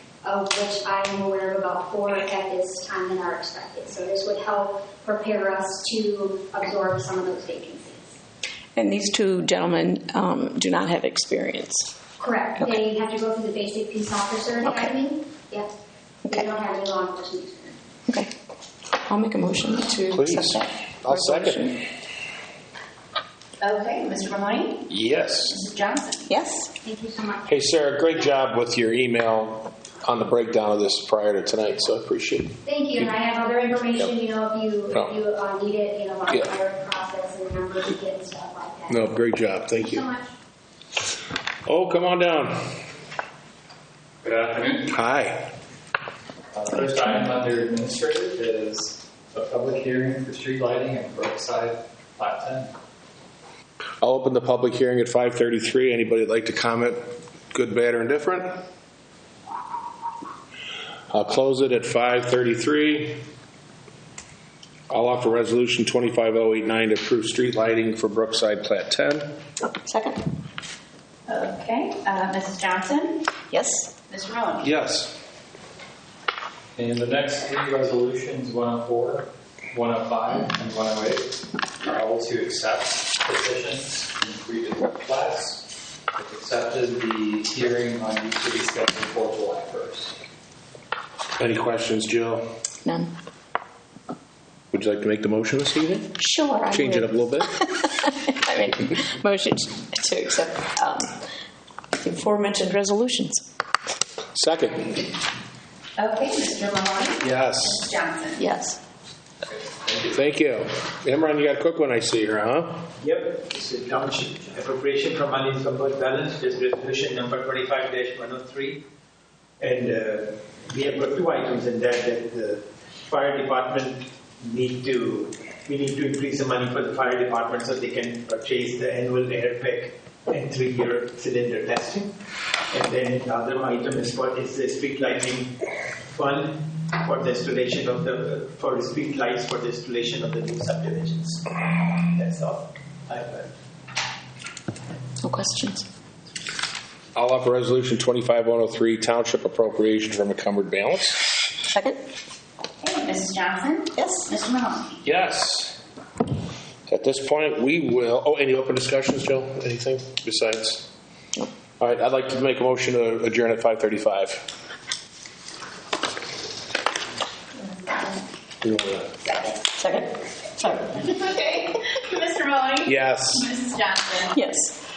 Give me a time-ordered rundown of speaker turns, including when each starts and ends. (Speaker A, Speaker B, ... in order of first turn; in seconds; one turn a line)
Speaker A: 0.2-8.2
Speaker B: 8.8-11.9
Speaker A: 12.2-15.7
Speaker A: 16.3-17.8
Speaker B: 19.1-21.8
Speaker C: 20.1-21.7
Speaker D: 23.6-24.9
Speaker C: 24.9-25.6
Speaker D: 25.5-26.4
Speaker B: 26.3-26.7
Speaker A: 26.8-27.5
Speaker C: 27.5-32.5
Speaker A: 32.6-39.1
Speaker C: 38.9-40.0
Speaker A: 39.8-40.3
Speaker C: 41.6-42.6
Speaker C: 44.7-45.5
Speaker E: 46.5-52.7
Speaker C: 54.0-57.0
Speaker C: 57.5-58.6
Speaker C: 61.1-63.2
Speaker C: 64.9-69.3
Speaker B: 69.8-70.2
Speaker D: 71.3-73.3
Speaker B: 73.5-73.9
Speaker D: 74.1-74.7
Speaker C: 74.6-75.1
Speaker E: 76.7-90.2
Speaker C: 91.4-92.5
Speaker B: 92.8-93.1
Speaker C: 94.7-96.1
Speaker B: 96.2-101.1
Speaker C: 96.7-97.6
Speaker B: 102.0-103.5
Speaker C: 104.3-104.9
Speaker D: 106.0-108.5
Speaker C: 107.2-107.8
Speaker B: 108.4-108.8
Speaker C: 110.0-112.8
Speaker F: 113.0-118.8
Speaker F: 119.6-132.1
Speaker F: 132.7-135.5
Speaker F: 136.1-143.5
Speaker B: 145.2-145.8
Speaker C: 147.1-151.2
Speaker B: 151.7-152.0
Speaker D: 152.8-155.0
Speaker B: 153.9-154.3
Speaker C: 155.0-155.8
Speaker C: 156.9-160.8
Speaker C: 161.8-164.4
Speaker D: 167.8-168.1
Speaker C: 168.6-169.1
Speaker D: 169.2-169.6
Speaker B: 169.7-170.9
Speaker D: 170.8-174.4
Speaker C: 172.8-173.4
Speaker B: 174.3-174.7